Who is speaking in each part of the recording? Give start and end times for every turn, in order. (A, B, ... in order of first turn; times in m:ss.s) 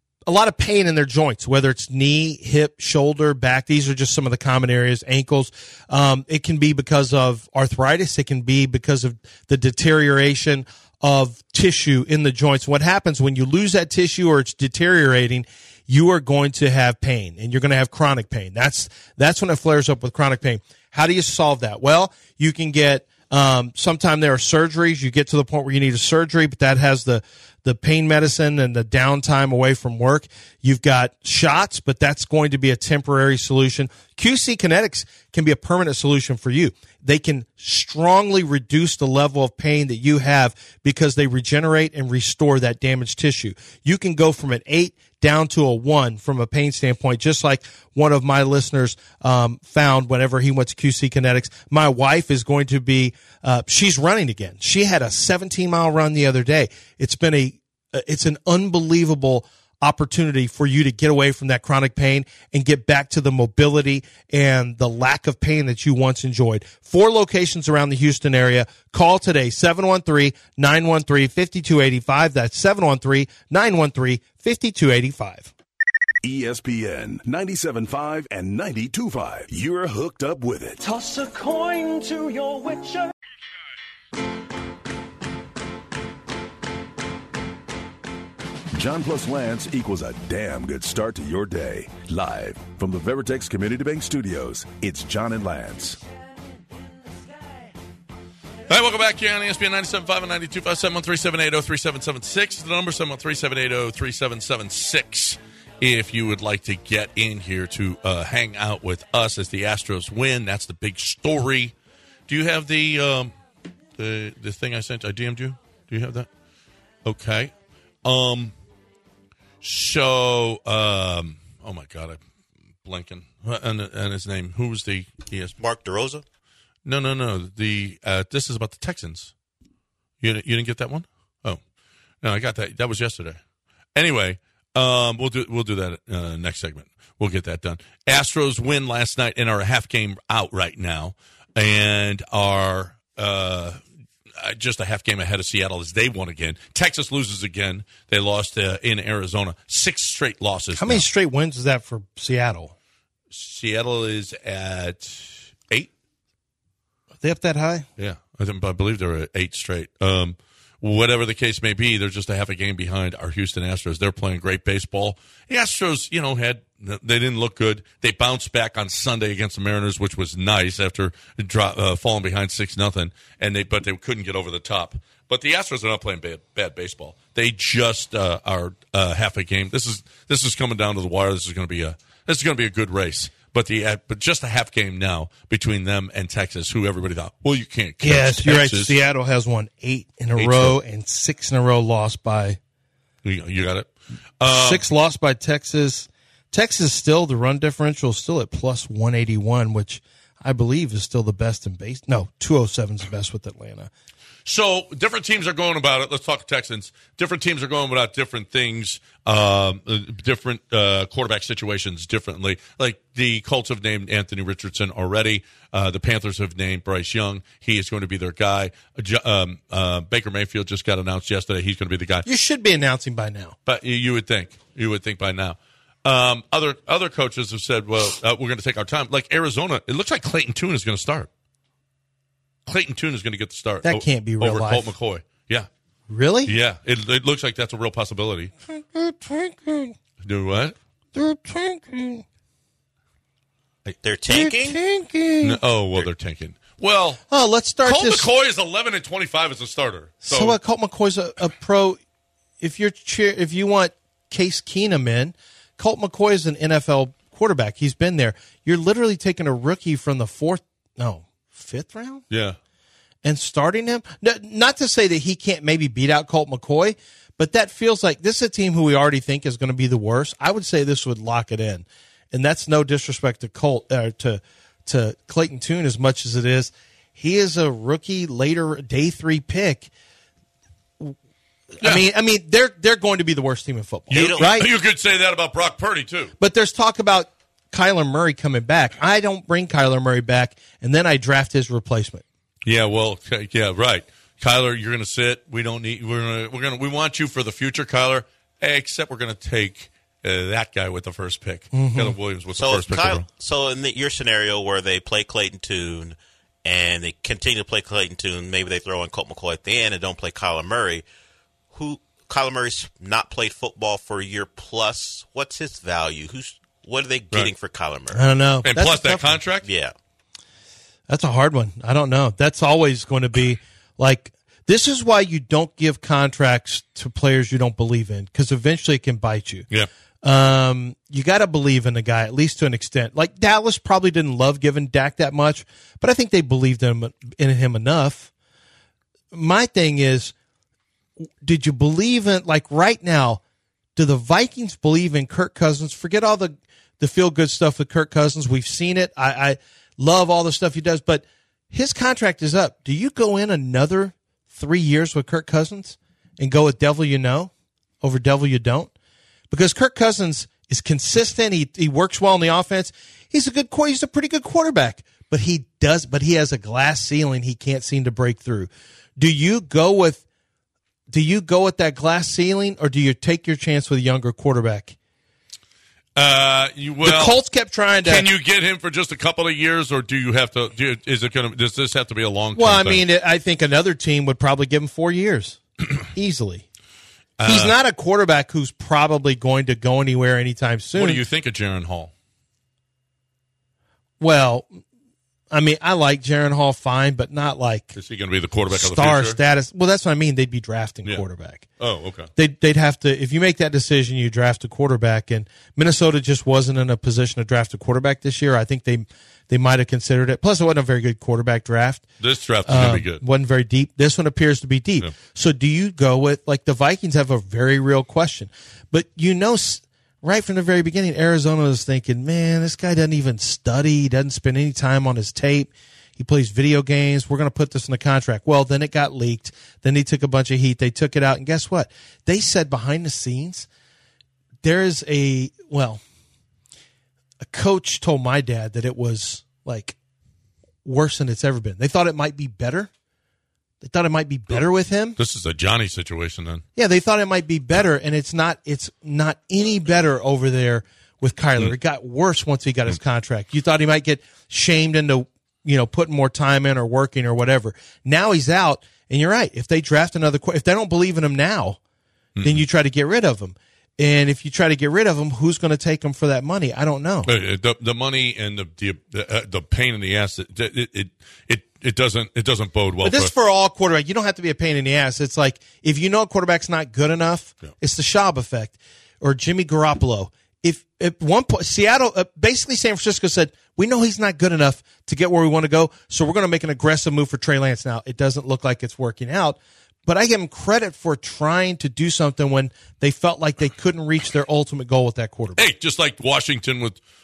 0:00.2-1:15.5 A
1:16.2-1:20.8 B
1:20.8-1:23.1 C
1:28.7-1:36.0 B
1:38.7-1:51.7 D
1:52.3-1:53.3 D
1:54.0-1:56.3 D
1:57.0-1:57.5 D
1:58.0-1:58.5 D
1:59.6-2:02.2 D
2:02.8-2:05.5 D
2:05.6-2:06.2 E
2:06.8-2:09.3 D
2:10.2-2:11.6 D
2:12.2-2:13.4 D
2:14.0-2:23.8 D
2:24.4-2:31.1 D
2:30.8-2:32.7 A
2:33.3-2:35.9 D
2:37.2-2:37.9 A
2:38.0-3:08.9 D
3:08.0-3:12.6 A
3:10.4-3:10.8 D
3:13.2-3:14.8 D
3:14.5-3:23.9 A
3:24.4-3:42.2 D
3:42.2-3:43.6 A
3:43.6-3:51.3 D
3:52.7-3:55.7 D
3:53.8-3:54.9 A
3:56.1-3:56.5 A
3:56.4-3:58.5 D
3:58.7-3:59.9 A
4:00.2-4:00.8 D
4:01.1-4:02.2 A
4:04.0-4:04.8 E
4:04.3-4:05.6 A
4:05.4-4:07.2 D
4:07.3-4:08.3 A
4:07.8-4:10.6 D
4:10.2-4:12.0 A
4:12.6-4:22.2 A
4:22.3-4:22.6 D
4:23.2-4:39.9 A
4:41.8-4:44.7 A
4:44.1-4:46.3 D
4:44.1-4:44.6 E
4:46.4-4:52.2 A
4:52.6-5:03.2 D
5:01.7-5:02.2 A
5:02.5-5:11.0 E
5:11.7-5:18.2 E
5:18.1-5:19.4 A
5:18.6-5:19.7 D
5:19.6-5:19.9 E
5:21.1-5:29.7 A
5:30.2-5:38.3 A
5:39.3-5:40.3 A
5:41.2-5:43.4 A
5:44.0-5:57.5 A
5:58.0-5:58.9 A
5:59.5-6:10.2 A
6:11.1-6:14.9 A
6:16.2-6:17.4 D
6:17.0-6:18.3 A
6:18.0-6:23.0 D
6:22.5-6:26.6 A
6:27.4-6:27.7 D
6:27.4-6:31.2 A
6:30.9-6:32.1 D
6:34.2-6:34.8 A
6:35.5-6:37.9 A
6:37.9-6:39.4 D
6:38.7-6:41.7 A
6:41.8-6:42.3 D
6:42.4-6:52.0 A
6:52.2-6:53.2 D
6:52.6-7:13.7 A
7:14.6-7:16.0 A
7:17.4-7:20.0 A
7:20.8-7:22.9 A
7:23.8-7:25.2 A
7:25.2-7:26.6 D
7:26.8-7:41.8 A
7:42.4-7:42.6 D
7:42.4-7:47.3 A
7:47.2-7:53.3 D
7:53.0-8:15.6 A
8:15.6-8:17.0 D